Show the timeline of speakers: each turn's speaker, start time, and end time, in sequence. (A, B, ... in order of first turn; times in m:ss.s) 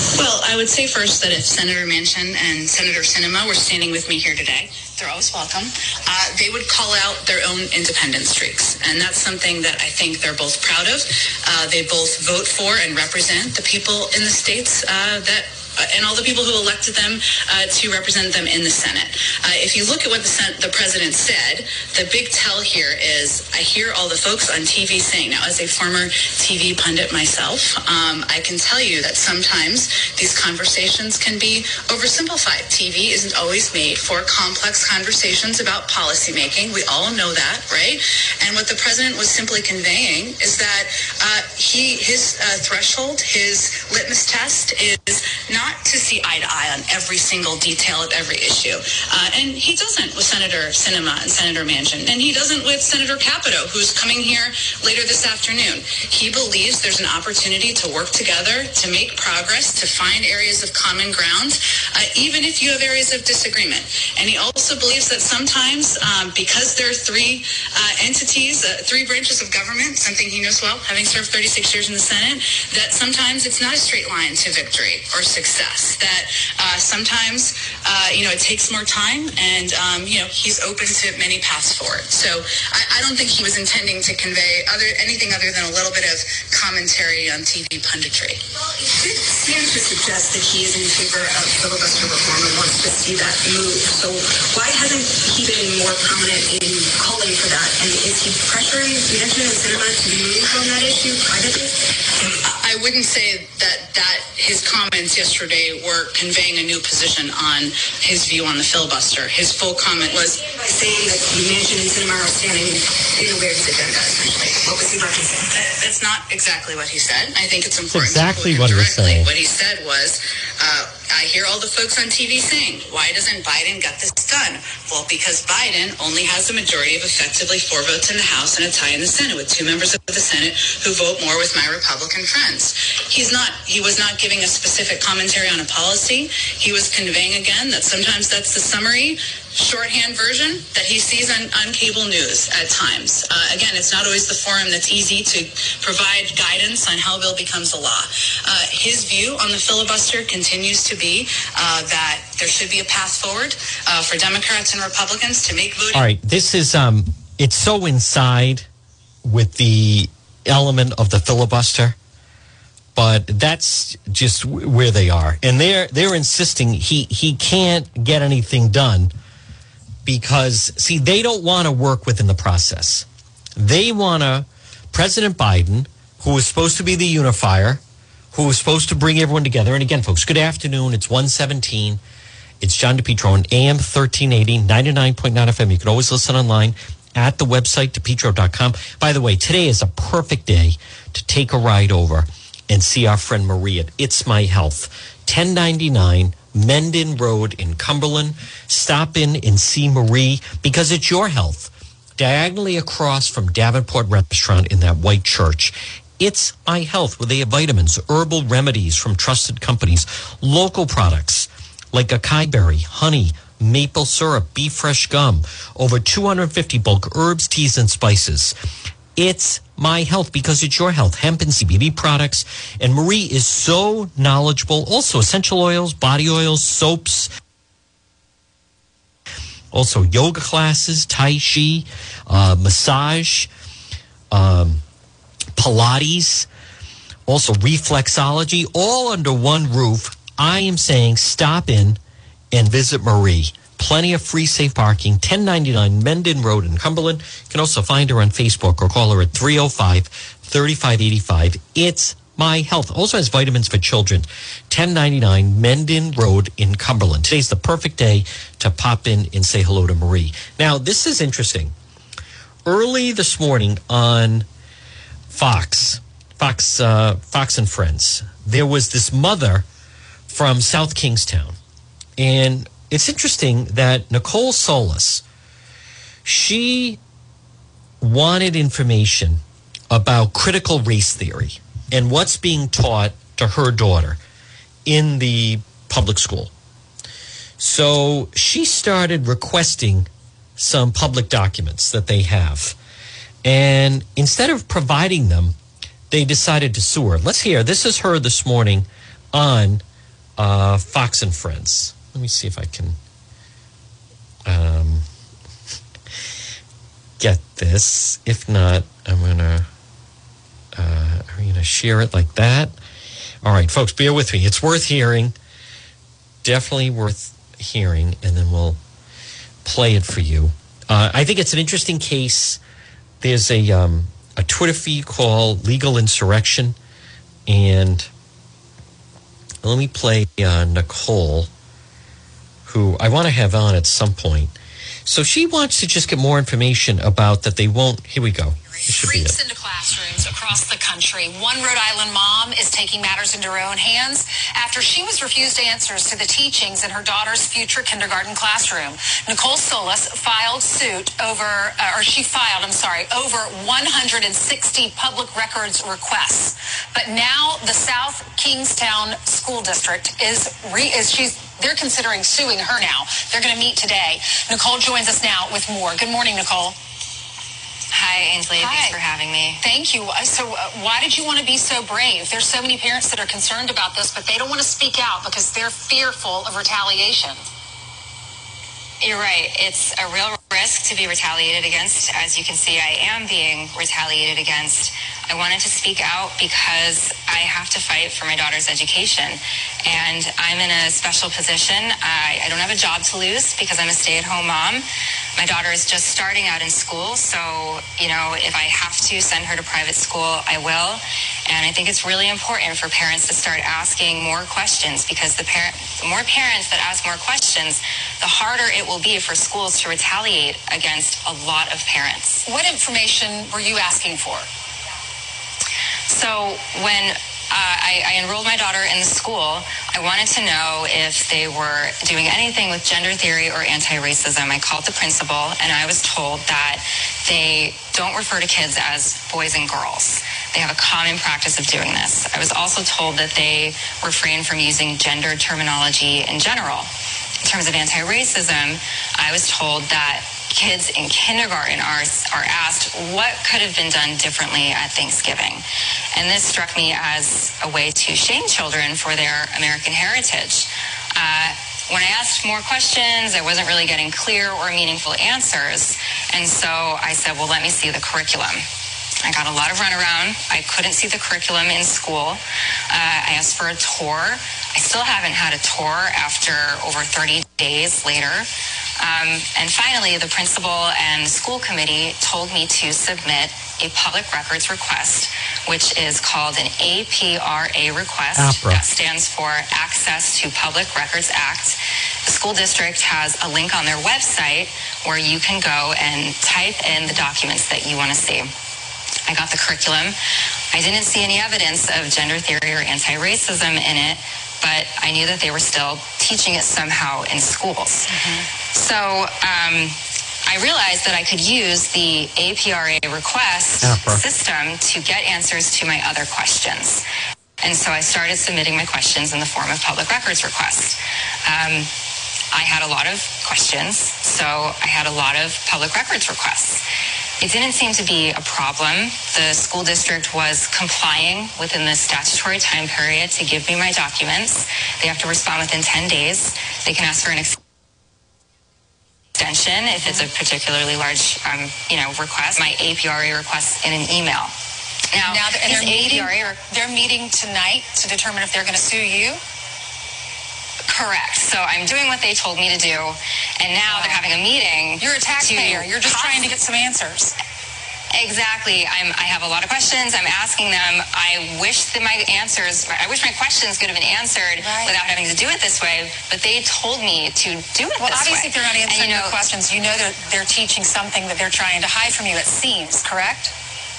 0:00.1-1:28.4 A
1:28.6-1:41.9 B
1:42.4-1:50.4 A
1:50.2-1:55.6 B
1:55.6-2:36.0 A
1:57.9-1:59.3 C
2:35.9-2:38.7 C
2:39.2-2:42.0 C
2:43.0-2:49.1 C
2:50.0-3:02.0 C
3:02.6-3:38.6 C
3:39.2-3:47.3 C
3:49.7-3:53.5 C
3:54.3-3:54.8 C
3:55.6-3:56.5 C
3:57.3-4:02.0 C
4:02.5-4:21.7 C
4:22.6-4:24.5 C
4:25.3-4:29.7 C
4:30.3-4:31.6 C
4:32.2-4:35.2 C
4:36.2-4:37.0 C
4:38.0-4:44.2 C
4:44.9-4:46.5 C
4:47.6-4:52.8 C
4:53.4-4:55.6 C
4:56.1-4:59.8 C
5:00.4-5:03.0 C
5:04.4-5:05.1 C
5:07.2-5:09.7 C
5:10.8-5:12.7 C
5:13.4-5:15.4 C
5:16.4-5:18.8 C
5:19.6-5:22.6 C
5:23.2-5:26.8 C
5:27.5-5:28.1 C
5:29.6-5:31.5 C
5:32.6-5:34.5 C
5:35.0-5:39.4 C
5:38.8-6:06.8 D
6:07.9-6:09.6 E
6:08.6-6:09.0 D
6:09.6-6:17.4 D
6:19.0-6:34.9 E
6:35.4-6:52.4 E
6:52.4-6:54.5 D
6:56.1-7:16.9 E
7:17.4-7:38.6 E
7:39.2-7:48.5 E
7:49.0-8:08.5 E
7:58.4-7:58.8 C
8:09.3-8:10.2 E
8:10.7-8:18.1 E
8:18.1-8:18.5 D
8:18.7-8:27.0 E
8:23.8-8:24.2 C
8:27.6-8:31.9 E
8:32.5-8:36.8 E
8:37.4-8:47.6 E
8:49.4-8:54.5 E
8:55.1-8:56.6 E
8:55.2-8:59.4 D
9:00.9-9:06.6 E
9:03.9-9:04.2 D
9:05.0-9:07.4 D
9:08.1-9:19.4 E
9:14.6-9:14.9 D
9:18.0-9:23.5 D